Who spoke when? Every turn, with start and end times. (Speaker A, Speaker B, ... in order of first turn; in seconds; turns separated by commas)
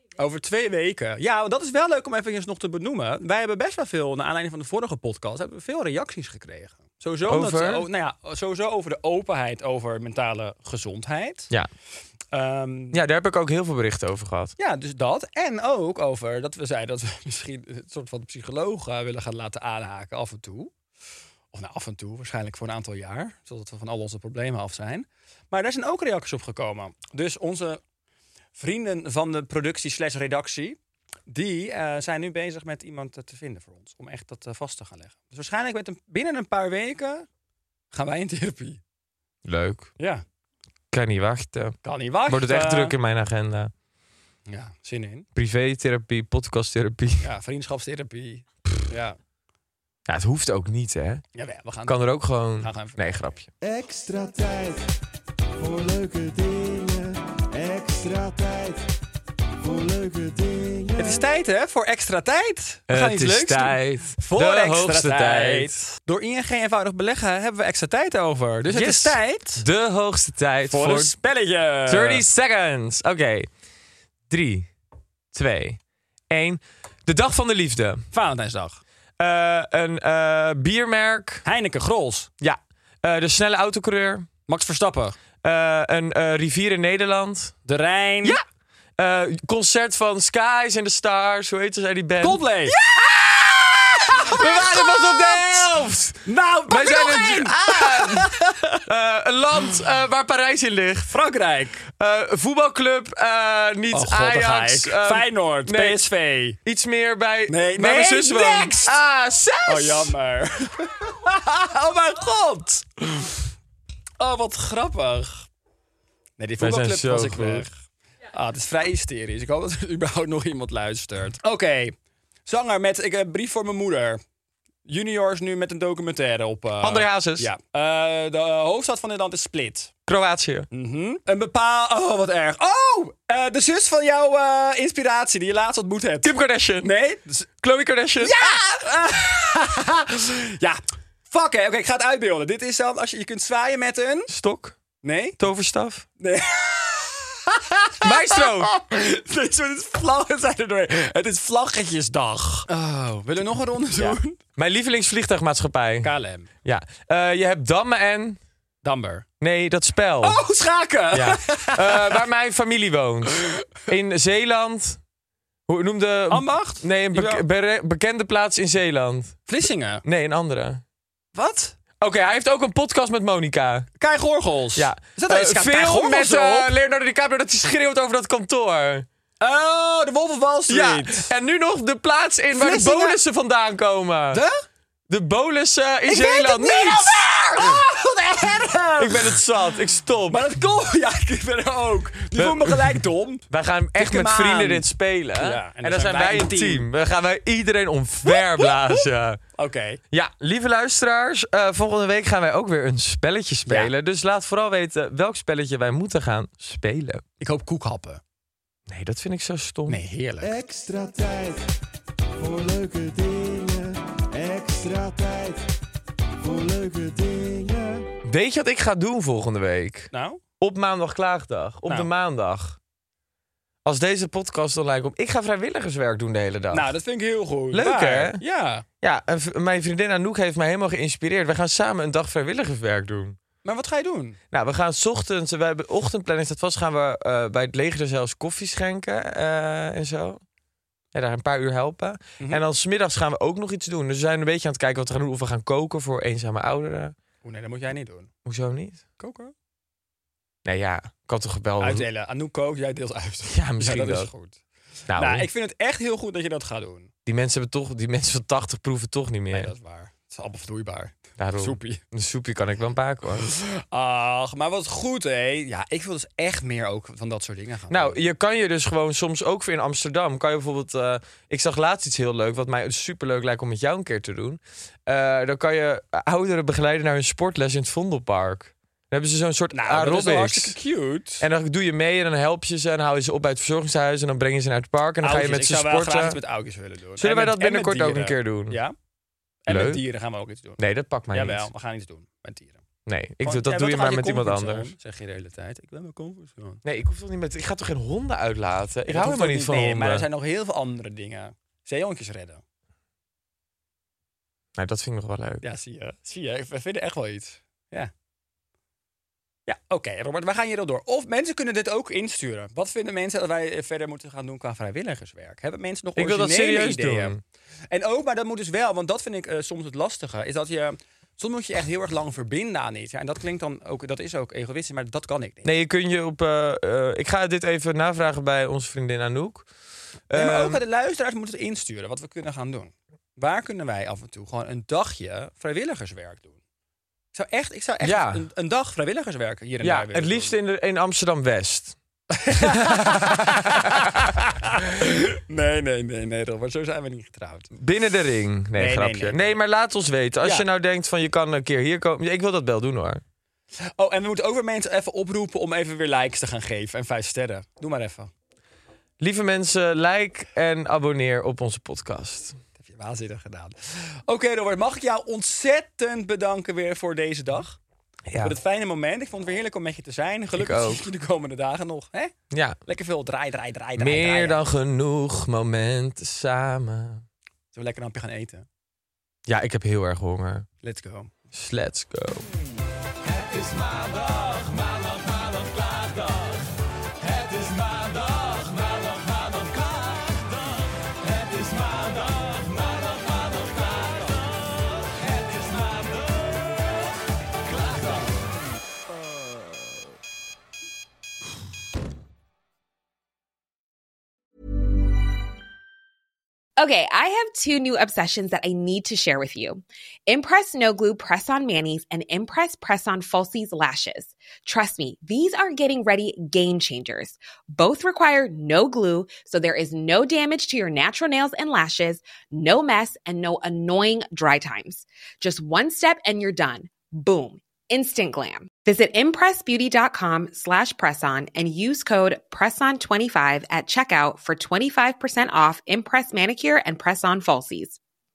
Speaker A: 0.2-11.5, Speaker B: 7.3-7.8, Speaker A: 12.3-13.0, Speaker B: 12.9-14.5, Speaker A: 14.6-20.7, Speaker A: 21.5-27.8, Speaker A: 28.6-37.3, Speaker A: 37.9-38.8, Speaker B: 39.4-39.9, Speaker A: 40.0-40.2, Speaker B: 40.9-43.7, Speaker A: 41.8-43.0, Speaker A: 44.5-45.3, Speaker B: 45.4-47.3, Speaker A: 47.2-49.2, Speaker B: 50.1-51.2, Speaker A: 51.3-52.0, Speaker B: 51.9-53.5, Speaker A: 52.6-53.4, Speaker C: 53.6-55.0, Speaker C: 55.6-58.9, Speaker C: 59.6-61.2, Speaker A: 61.0-69.7, Speaker B: 62.9-65.8, Speaker B: 68.7-71.1, Speaker A: 70.7-72.2, Speaker B: 71.9-73.5, Speaker B: 74.3-74.7, Speaker B: 75.3-75.8, Speaker B: 76.3-78.0, Speaker A: 78.1-78.8, Speaker B: 79.2-81.4, Speaker A: 81.4-82.3, Speaker B: 82.4-84.3, Speaker A: 84.5-85.2, Speaker B: 85.4-87.5, Speaker A: 87.7-88.4, Speaker B: 89.0-101.2, Speaker A: 92.2-92.8, Speaker A: 93.9-95.5, Speaker A: 96.2-98.8, Speaker A: 101.1-101.8, Speaker B: 101.9-106.0, Speaker A: 103.9-106.6, Speaker B: 106.6-110.1, Speaker A: 107.5-109.0, Speaker A: 109.7-113.3, Speaker A: 114.2-115.5, Speaker A: 116.4-117.7, Speaker B: 116.6-117.7, Speaker A: 118.3-124.2, Speaker A: 124.8-129.9, Speaker B: 126.8-127.5, Speaker B: 130.1-130.7, Speaker A: 130.7-137.5, Speaker B: 136.2-136.9, Speaker B: 137.6-138.5, Speaker A: 138.2-144.3, Speaker B: 144.3-144.8, Speaker A: 145.0-145.4, Speaker B: 145.4-146.1, Speaker A: 146.2-154.4, Speaker B: 148.0-148.7, Speaker B: 154.0-156.1, Speaker A: 156.0-156.5, Speaker B: 156.6-158.4, Speaker A: 158.8-159.2, Speaker B: 159.4-160.4, Speaker A: 160.2-162.2, Speaker B: 161.1-165.0, Speaker B: 165.7-169.5, Speaker A: 166.3-167.4, Speaker A: 169.5-170.0, Speaker B: 170.0-170.8, Speaker A: 171.3-171.8, Speaker B: 172.0-173.9, Speaker A: 174.0-176.7, Speaker B: 174.8-179.1, Speaker A: 179.4-181.3, Speaker B: 180.7-184.4, Speaker A: 182.5-183.2, Speaker A: 184.3-184.6, Speaker B: 185.1-187.8, Speaker A: 186.1-189.4, Speaker B: 189.0-190.4, Speaker A: 190.3-194.9, Speaker B: 192.3-199.4, Speaker A: 195.4-196.9, Speaker A: 198.3-199.0, Speaker A: 199.6-200.0, Speaker B: 200.1-207.2, Speaker A: 203.7-203.9, Speaker A: 207.4-208.2, Speaker B: 208.9-210.0, Speaker A: 209.9-210.5, Speaker C: 210.4-211.8, Speaker C: 212.4-215.7, Speaker C: 216.4-218.1, Speaker B: 218.2-222.8, Speaker A: 220.1-220.4, Speaker B: 223.8-226.9, Speaker A: 226.7-228.8, Speaker B: 227.7-228.4, Speaker B: 229.0-233.4, Speaker A: 233.6-234.4, Speaker B: 234.5-240.4, Speaker B: 241.1-247.1, Speaker A: 247.4-248.3, Speaker B: 248.4-249.0, Speaker A: 249.2-249.5, Speaker B: 250.6-252.1, Speaker A: 251.8-254.6, Speaker B: 253.5-254.3, Speaker B: 255.1-255.5, Speaker A: 255.1-257.1, Speaker B: 257.2-259.7, Speaker A: 259.5-262.0, Speaker B: 261.4-263.5, Speaker A: 263.4-268.2, Speaker B: 267.9-280.7, Speaker A: 279.7-281.4, Speaker B: 281.4-286.4, Speaker A: 285.2-288.9, Speaker B: 287.2-288.8, Speaker A: 289.6-290.8, Speaker B: 289.7-290.0, Speaker B: 290.8-291.7, Speaker A: 291.3-292.8, Speaker B: 293.1-294.9, Speaker A: 293.4-296.8, Speaker B: 296.8-300.3, Speaker A: 299.1-302.6, Speaker B: 304.8-305.6, Speaker A: 305.6-308.1, Speaker A: 309.7-317.3, Speaker B: 316.2-317.4, Speaker A: 317.9-325.7, Speaker B: 325.6-329.7, Speaker B: 330.3-330.8, Speaker A: 330.3-336.6, Speaker A: 337.3-340.6, Speaker B: 338.0-338.4, Speaker B: 339.8-341.9, Speaker A: 342.3-347.7, Speaker B: 342.6-344.3, Speaker B: 347.8-353.2, Speaker A: 348.8-349.6, Speaker A: 350.4-350.6, Speaker A: 353.8-358.3, Speaker B: 359.2-362.6, Speaker A: 362.8-367.8, Speaker B: 368.3-368.6, Speaker A: 368.4-372.3, Speaker B: 370.6-371.0, Speaker B: 372.5-372.8, Speaker A: 372.9-374.6, Speaker B: 374.0-377.2, Speaker A: 377.7-378.6, Speaker B: 379.4-380.7, Speaker A: 380.8-381.3, Speaker B: 381.5-382.5, Speaker B: 383.6-386.5, Speaker B: 387.3-390.5, Speaker B: 391.4-394.2, Speaker B: 395.5-396.2, Speaker D: 406.8-438.0